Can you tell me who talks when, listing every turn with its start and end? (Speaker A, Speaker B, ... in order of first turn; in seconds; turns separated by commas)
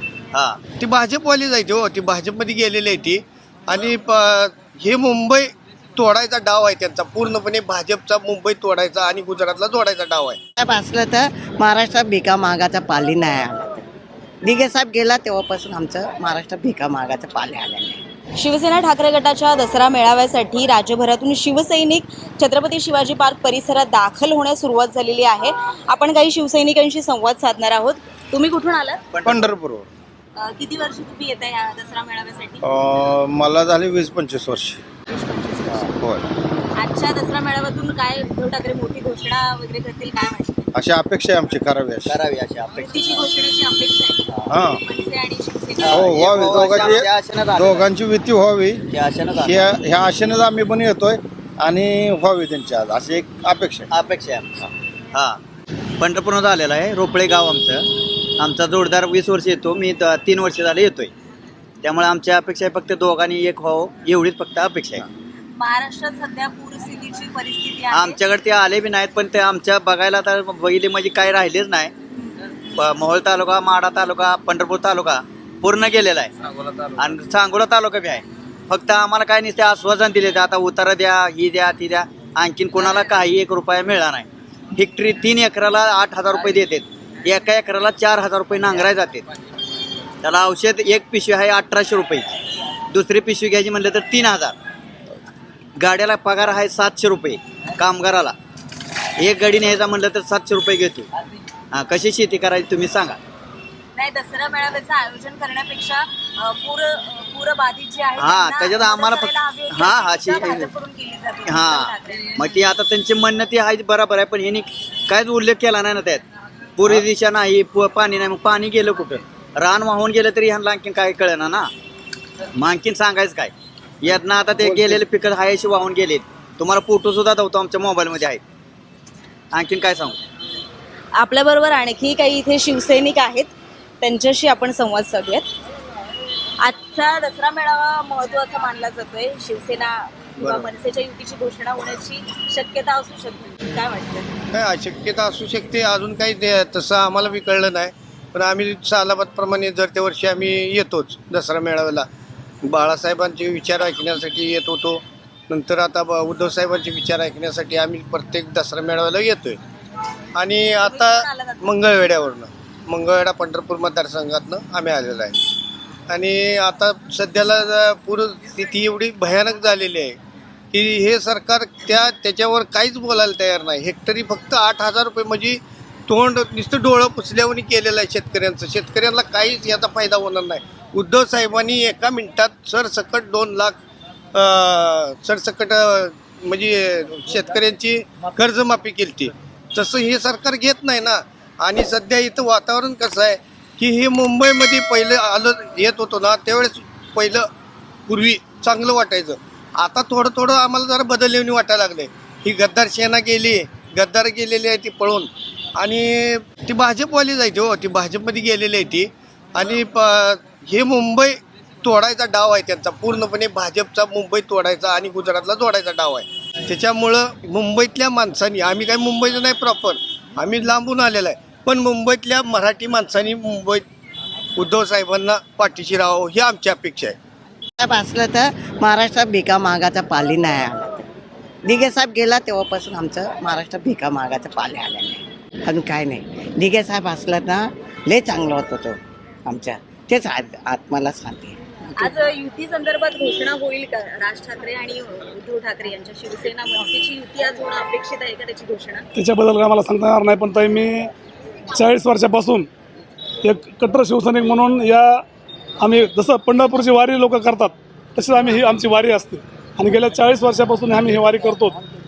Speaker A: 0.3-0.6, Speaker B: 0.8-10.4, Speaker C: 10.6-13.8, Speaker C: 14.4-18.0, Speaker D: 18.4-29.0, Speaker A: 29.1-29.5, Speaker E: 29.2-29.9, Speaker D: 30.4-32.6, Speaker E: 32.6-34.8, Speaker D: 35.1-35.9, Speaker D: 36.8-40.6, Speaker E: 40.8-42.1, Speaker A: 42.1-43.3, Speaker D: 42.8-46.1, Speaker E: 44.5-44.8, Speaker A: 45.8-47.9, Speaker E: 45.9-48.8, Speaker A: 48.9-49.7, Speaker E: 49.4-53.9, Speaker A: 53.9-54.5, Speaker A: 55.1-55.4, Speaker A: 56.0-57.9, Speaker A: 58.4-61.1, Speaker A: 61.8-65.1, Speaker D: 65.6-68.2, Speaker A: 67.9-71.9, Speaker A: 72.8-89.2, Speaker A: 90.2-92.3, Speaker A: 92.9-94.6, Speaker A: 95.8-98.4, Speaker A: 99.2-101.1, Speaker A: 101.7-103.2, Speaker D: 104.0-112.4, Speaker A: 108.2-110.7, Speaker A: 111.5-116.2, Speaker A: 116.8-121.7, Speaker A: 122.6-128.4, Speaker A: 129.5-130.2, Speaker D: 131.2-133.5, Speaker D: 134.0-135.5, Speaker D: 136.6-144.3, Speaker B: 140.4-140.7, Speaker B: 144.5-152.1, Speaker B: 152.6-159.6, Speaker B: 160.3-165.4, Speaker D: 160.8-161.6, Speaker B: 166.1-170.2, Speaker B: 170.7-183.8, Speaker B: 184.3-197.5, Speaker B: 198.1-223.8, Speaker B: 224.6-227.2, Speaker C: 227.8-231.1, Speaker C: 231.7-241.6, Speaker D: 242.0-249.1, Speaker F: 249.2-251.1, Speaker F: 251.7-252.7, Speaker F: 253.4-255.2, Speaker F: 255.8-261.8